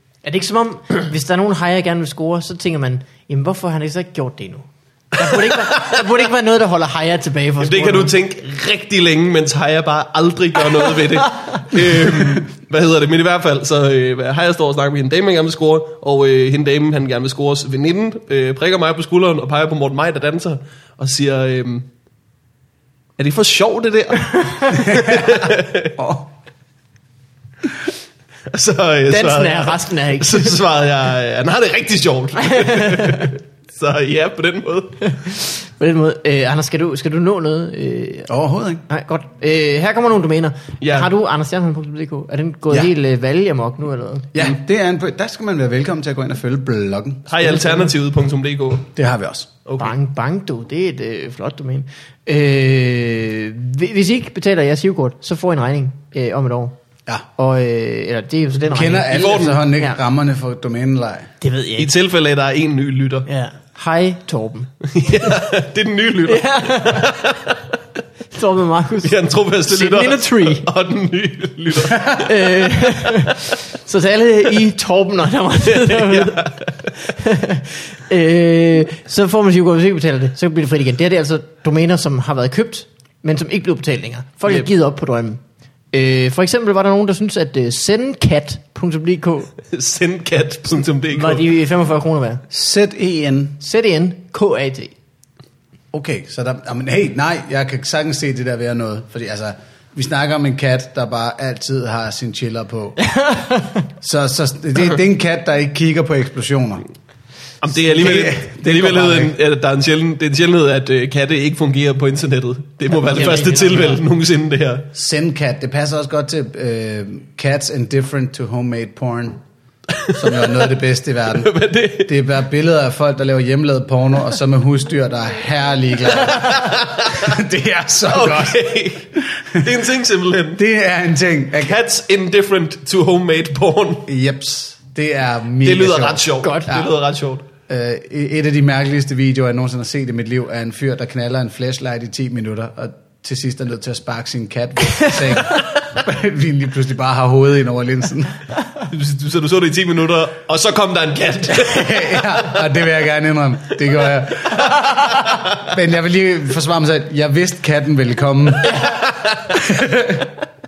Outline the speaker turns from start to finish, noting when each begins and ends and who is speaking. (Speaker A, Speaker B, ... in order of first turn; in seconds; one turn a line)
Speaker A: 0.2-8.2
Speaker B: 5.3-6.0
Speaker B: 7.6-21.9
Speaker B: 23.2-25.9
Speaker C: 24.7-26.3
Speaker B: 28.5-35.0
Speaker A: 29.1-30.6
Speaker A: 32.4-33.3
Speaker A: 35.0-38.3
Speaker C: 38.3-38.8
Speaker A: 38.9-44.3
Speaker B: 40.8-41.1
Speaker C: 44.3-47.3
Speaker B: 47.3-48.9
Speaker A: 47.4-47.9
Speaker C: 49.0-49.5
Speaker B: 49.7-49.9
Speaker A: 49.8-56.8
Speaker A: 57.4-60.0
Speaker C: 58.7-61.3
Speaker B: 59.1-59.6
Speaker A: 61.4-61.9
Speaker B: 61.8-63.3
Speaker A: 63.3-64.7
Speaker B: 64.8-67.6
Speaker A: 66.3-67.3
Speaker A: 68.3-70.7
Speaker B: 69.0-72.7
Speaker C: 71.9-72.2
Speaker A: 72.1-85.4
Speaker B: 75.7-77.0
Speaker A: 85.9-89.5
Speaker B: 89.7-91.5
Speaker A: 91.1-92.4
Speaker C: 92.5-93.6
Speaker A: 93.6-94.9
Speaker C: 95.9-103.0
Speaker A: 103.0-103.9
Speaker C: 104.0-106.8
Speaker B: 107.6-114.9
Speaker C: 107.8-109.3
Speaker A: 113.0-114.0
Speaker C: 115.0-119.4
Speaker B: 120.0-120.7
Speaker C: 120.2-128.7
Speaker B: 121.3-122.1
Speaker B: 126.2-127.4
Speaker B: 128.1-130.6
Speaker C: 129.2-129.8
Speaker C: 130.6-131.8
Speaker B: 131.6-134.1
Speaker C: 134.1-136.9
Speaker B: 135.6-137.5
Speaker A: 136.4-136.8
Speaker C: 137.7-148.4
Speaker B: 148.9-152.5
Speaker C: 151.5-158.8
Speaker B: 155.2-155.5
Speaker A: 158.6-159.0
Speaker B: 158.7-159.6
Speaker C: 159.5-160.3